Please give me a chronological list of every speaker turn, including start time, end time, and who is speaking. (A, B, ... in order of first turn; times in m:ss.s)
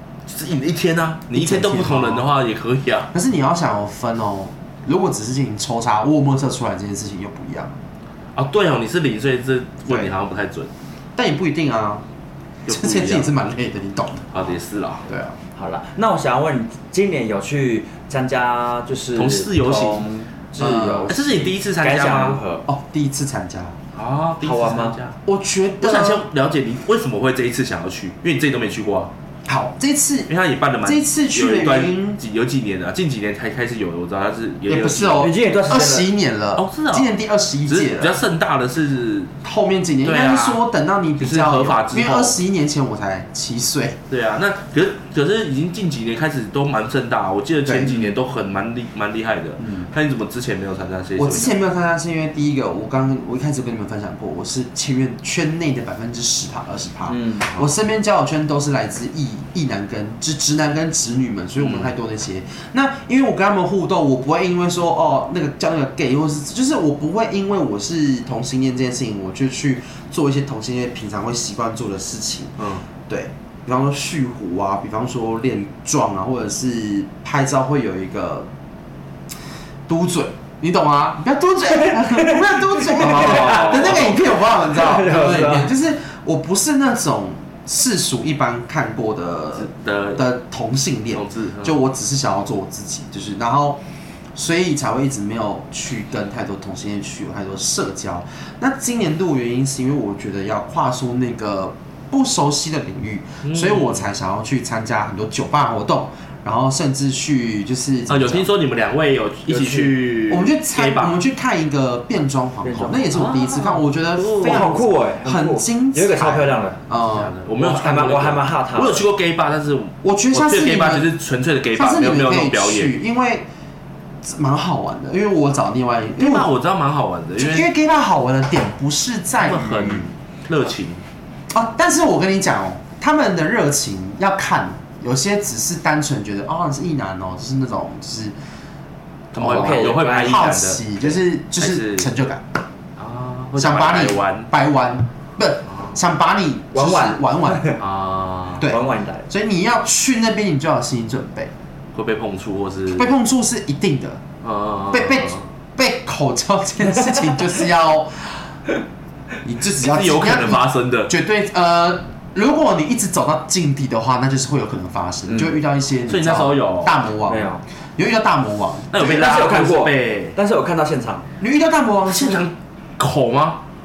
0:00.3-0:03.1 A
0:01.3-0:02.3 B
0:03.1-0:07.8 B
0:08.4-0:10.7 A
0:11.2-0:12.0 B
0:12.7-0:13.3 A
0:12.7-0:14.6 B
0:14.3-0:15.1 A
0:15.1-0:15.4 B
0:15.6-0:22.6 C
0:19.2-0:20.0 A
0:20.6-0:21.1 B
0:21.1-0:22.4 A
0:22.7-0:23.8 B
0:24.0-0:25.2 A
0:24.4-0:25.0 C
0:25.3-0:26.3 B
0:25.8-0:29.1 A
0:29.5-0:30.3 B
0:30.3-0:35.3 A
0:30.8-0:32.2 B
0:34.7-0:38.2 B
0:35.2-0:36.1 C
0:36.6-0:39.3 A
0:39.4-0:44.0 B
0:40.0-0:40.6 A
0:41.2-0:42.4 A
0:44.1-0:51.5 A
0:47.7-0:48.1 B
0:49.6-0:49.9 B
0:51.2-1:18.5 B
0:57.1-0:57.6 C
1:01.6-1:01.9 A
1:19.9-1:33.8 B
1:22.0-1:23.9 C
1:23.0-1:24.2 A
1:24.7-1:25.7 C
1:29.6-1:30.2 A
1:31.1-1:31.8 A
1:34.4-1:48.5 B
1:43.4-1:44.1 A
1:48.1-1:51.2 A
1:49.5-1:50.0 C
1:50.3-1:57.3 B
1:52.6-1:53.3 C
1:53.1-1:54.8 A
1:54.4-1:56.8 C
1:57.0-2:02.9 A
1:57.6-1:59.0 C
2:00.0-2:01.1 B
2:01.8-2:03.4 B
2:04.2-2:06.5 B
2:06.2-2:07.7 A
2:07.4-2:10.1 B
2:09.4-2:11.0 A
2:11.5-2:18.4 B
2:19.3-2:22.1 A
2:19.4-2:22.5 B
2:19.4-2:20.4 C
2:23.0-2:24.5 A
2:23.6-2:27.8 B
2:26.7-2:27.8 C
2:27.8-2:28.6 A
2:28.6-2:29.3 C
2:28.6-2:31.5 B
2:31.9-2:33.1 A
2:32.9-2:34.2 B
2:34.4-2:35.4 A
2:34.9-2:38.5 B
2:39.4-2:49.1 B
2:39.7-2:41.1 A
2:46.1-2:47.0 A
2:47.3-2:47.6 C
2:48.9-2:50.4 A
2:49.0-2:51.3 C
2:51.4-2:52.5 B
2:52.1-2:53.6 A